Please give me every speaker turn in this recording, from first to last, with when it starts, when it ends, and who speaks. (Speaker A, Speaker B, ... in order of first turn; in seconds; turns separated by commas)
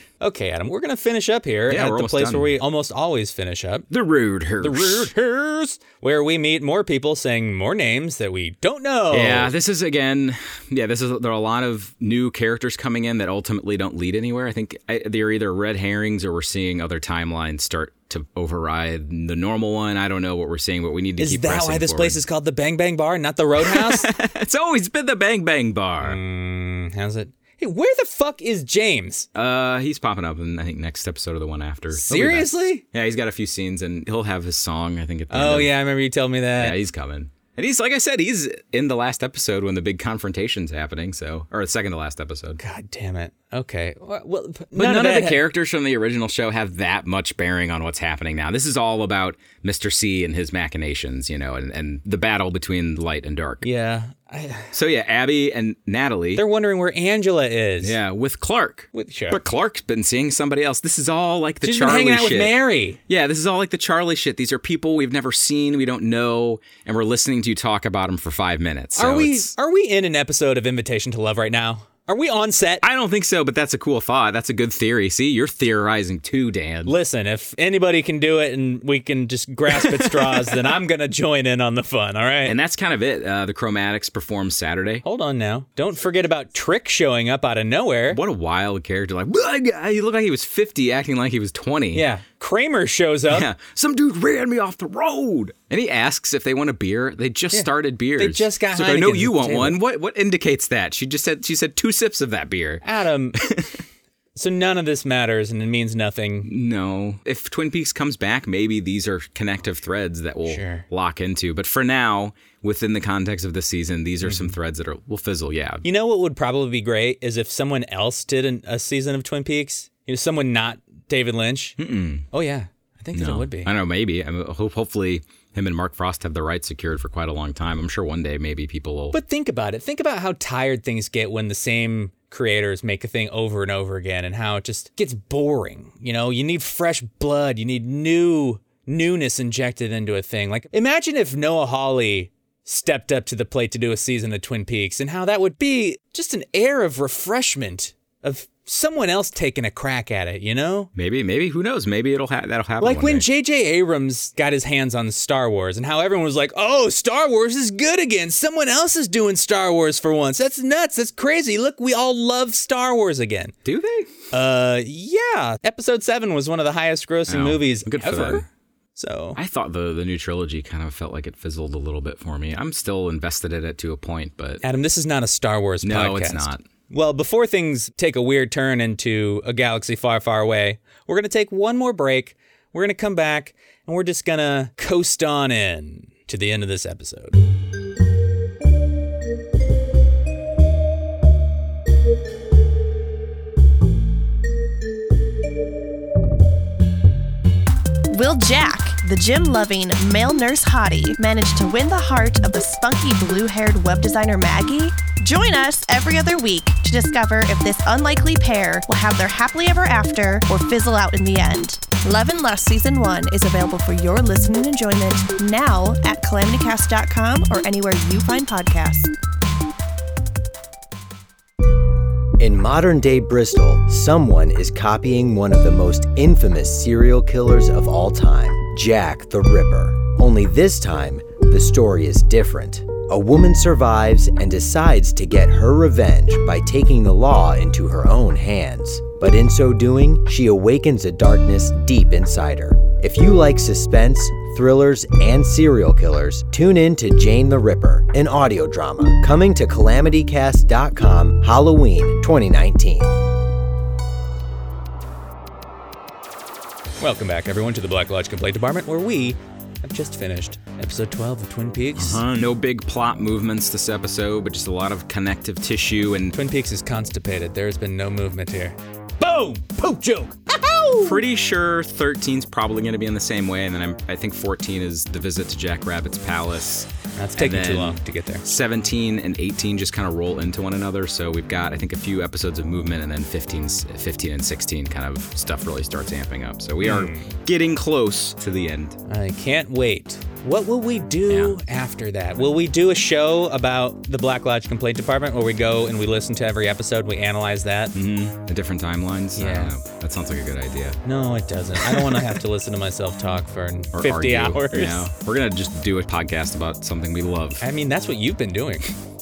Speaker A: 0.2-3.9, Speaker B: 1.7-2.5, Speaker B: 3.9-5.1, Speaker A: 4.6-9.5, Speaker B: 9.1-22.2, Speaker A: 21.2-24.1, Speaker B: 23.6-26.2, Speaker A: 26.0-29.3, Speaker B: 29.3-35.7, Speaker A: 31.9-32.8, Speaker A: 35.3-36.8, Speaker B: 36.5-42.6, Speaker A: 42.6-45.4, Speaker B: 44.7-53.6, Speaker A: 53.6-54.7, Speaker B: 54.7-56.4, Speaker A: 56.4-58.0, Speaker B: 57.8-62.6, Speaker A: 58.9-59.4, Speaker A: 61.6-63.0, Speaker B: 63.1-69.5, Speaker A: 69.0-72.8, Speaker B: 72.8-77.0, Speaker A: 76.8-82.5, Speaker B: 79.7-80.7, Speaker B: 82.4-85.0, Speaker A: 85.0-88.2, Speaker B: 88.1-92.0, Speaker A: 91.9-93.5, Speaker B: 93.3-102.8, Speaker A: 97.5-99.8, Speaker A: 102.8-103.4, Speaker B: 103.3-103.8, Speaker A: 104.3-106.5, Speaker B: 106.4-115.8, Speaker A: 110.5-110.8, Speaker A: 114.2-114.5, Speaker A: 115.8-121.8, Speaker B: 121.8-122.3, Speaker A: 122.3-123.7, Speaker B: 123.1-129.2, Speaker A: 129.1-150.9, Speaker B: 150.9-153.2, Speaker A: 152.8-163.5, Speaker B: 163.6-164.1, Speaker A: 164.3-169.4, Speaker B: 167.3-168.4, Speaker B: 169.3-174.6, Speaker A: 174.6-187.4, Speaker B: 175.8-176.6, Speaker C: 198.1-219.1, Speaker D: 222.4-253.1, Speaker A: 257.0-262.2, Speaker B: 262.0-266.3, Speaker A: 266.3-271.2, Speaker B: 271.0-289.0, Speaker A: 277.1-278.4, Speaker A: 286.8-287.3, Speaker A: 289.1-297.9, Speaker B: 291.3-291.6, Speaker B: 297.9-301.0, Speaker A: 299.4-299.7, Speaker A: 301.0-305.1, Speaker B: 301.8-302.4, Speaker B: 303.9-307.6, Speaker A: 307.6-308.9